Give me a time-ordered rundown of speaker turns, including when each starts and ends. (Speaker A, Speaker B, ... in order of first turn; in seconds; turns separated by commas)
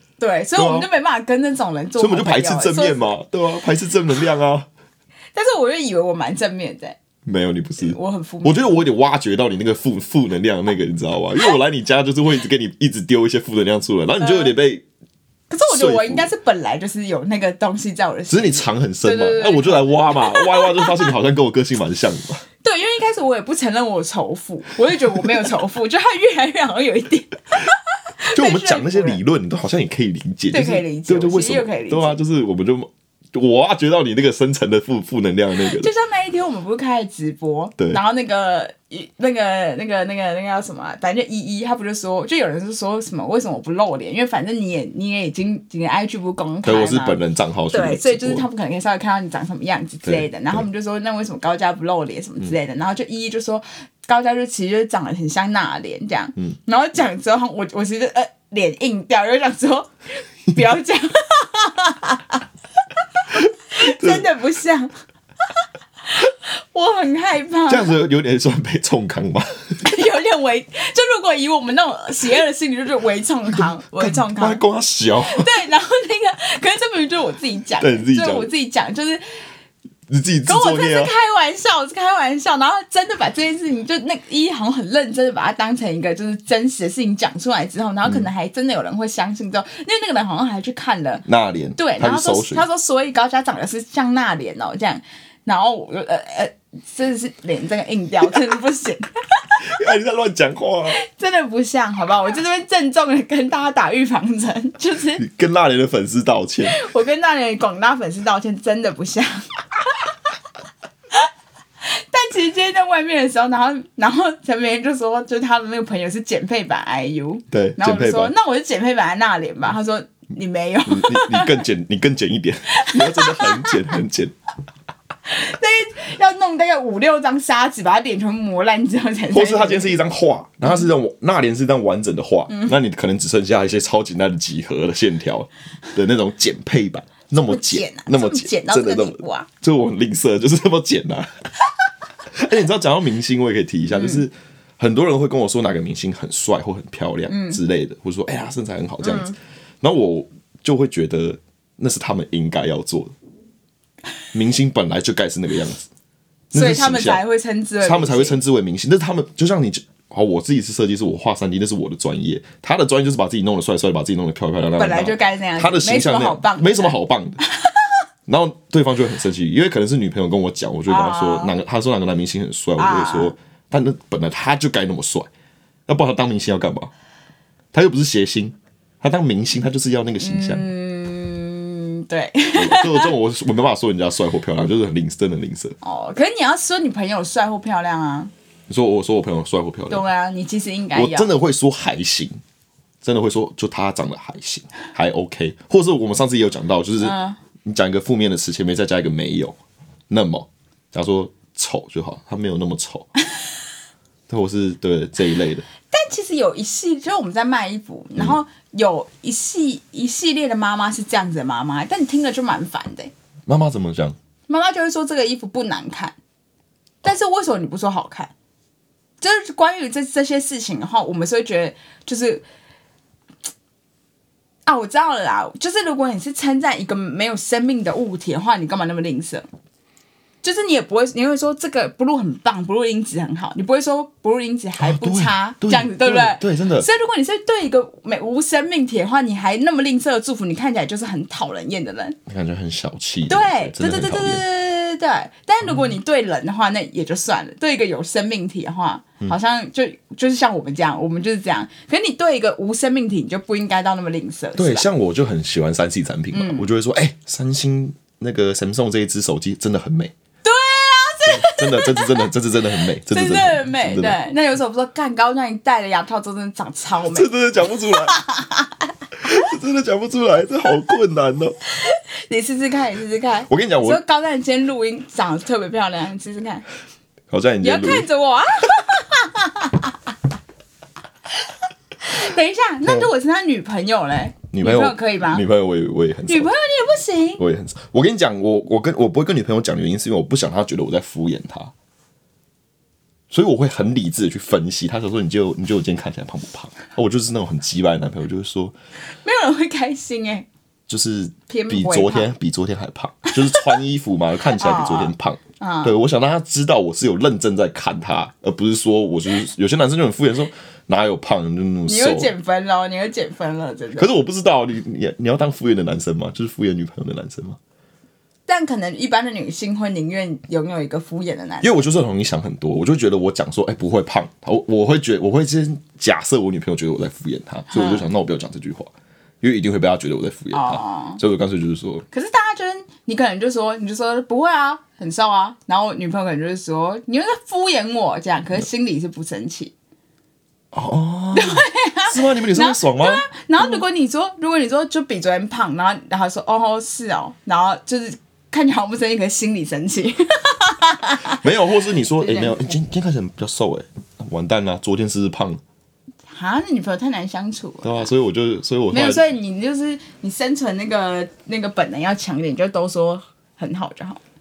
Speaker A: 0.2-3.1, Speaker B: 0.6-0.9, Speaker B: 2.0-4.7, Speaker A: 5.3-7.0, Speaker B: 7.2-14.8, Speaker A: 7.8-8.8, Speaker A: 14.2-14.5, Speaker A: 15.5-21.1, Speaker B: 15.7-16.3, Speaker B: 18.3-22.4, Speaker A: 22.6-29.2, Speaker B: 28.3-35.9, Speaker A: 30.5-32.2, Speaker A: 35.5-47.2, Speaker B: 46.6-48.5, Speaker A: 47.7-59.9, Speaker B: 50.0-50.6, Speaker A: 60.5-62.4, Speaker B: 63.4-64.3, Speaker A: 63.7-64.9, Speaker A: 66.1-67.9, Speaker B: 67.7-69.8, Speaker A: 69.8-74.6, Speaker B: 74.0-75.5, Speaker A: 75.2-79.2, Speaker B: 77.8-78.5, Speaker B: 80.1-81.1, Speaker A: 80.5-91.2, Speaker B: 91.3-92.7, Speaker A: 91.8-99.6, Speaker B: 99.6-101.0, Speaker A: 100.9-105.2, Speaker B: 105.2-106.8, Speaker A: 106.7-110.1, Speaker A: 111.8-121.6, Speaker B: 117.5-118.3, Speaker B: 120.9-124.3, Speaker A: 122.8-123.8, Speaker A: 125.3-130.0, Speaker B: 129.3-141.3, Speaker A: 132.5-132.8, Speaker A: 137.5-139.5, Speaker B: 142.3-153.1, Speaker A: 143.9-144.2, Speaker A: 147.3-147.6, Speaker A: 149.0-149.3, Speaker B: 154.3-155.9, Speaker B: 156.5-157.2, Speaker A: 156.5-158.4, Speaker B: 157.8-167.4, Speaker A: 164.8-166.9, Speaker A: 167.5-167.9, Speaker B: 168.3-175.3, Speaker A: 170.9-171.6, Speaker A: 172.8-173.3, Speaker B: 175.9-176.9, Speaker B: 177.7-180.7, Speaker A: 180.2-183.1, Speaker B: 182.6-185.8, Speaker A: 185.8-188.3, Speaker B: 188.7-190.0, Speaker A: 189.9-191.3, Speaker B: 190.9-192.4, Speaker B: 193.0-199.6, Speaker A: 197.0-197.4, Speaker B: 200.1-203.1, Speaker B: 204.3-205.7, Speaker A: 205.9-213.1, Speaker B: 213.5-214.2, Speaker A: 214.5-216.2, Speaker A: 217.0-218.3, Speaker A: 219.2-222.4, Speaker A: 224.7-229.5, Speaker A: 230.4-242.2, Speaker B: 234.8-236.9, Speaker B: 242.3-244.4, Speaker A: 243.3-254.9, Speaker B: 254.6-260.1, Speaker A: 256.3-256.7, Speaker A: 260.4-262.3, Speaker B: 261.2-264.2, Speaker A: 262.8-267.3, Speaker B: 267.1-268.2, Speaker A: 267.9-268.7, Speaker B: 269.2-271.6, Speaker A: 271.7-276.6, Speaker B: 273.5-274.0, Speaker B: 277.3-278.1, Speaker A: 277.6-280.0, Speaker A: 281.4-285.4, Speaker B: 284.5-286.5, Speaker A: 286.3-287.4, Speaker B: 287.4-291.7, Speaker B: 293.3-298.8, Speaker A: 299.2-300.5, Speaker B: 300.9-312.3, Speaker A: 301.5-302.3, Speaker A: 303.4-303.8, Speaker A: 304.5-305.9, Speaker A: 311.9-314.1, Speaker B: 314.0-317.6, Speaker A: 318.5-321.8, Speaker B: 321.6-332.1, Speaker A: 327.7-328.1, Speaker A: 330.5-331.2, Speaker A: 332.1-339.7, Speaker B: 340.7-343.8, Speaker A: 341.3-351.4, Speaker B: 351.4-355.6, Speaker A: 352.2-352.6, Speaker A: 356.3-358.1, Speaker B: 357.8-359.3, Speaker A: 358.9-364.2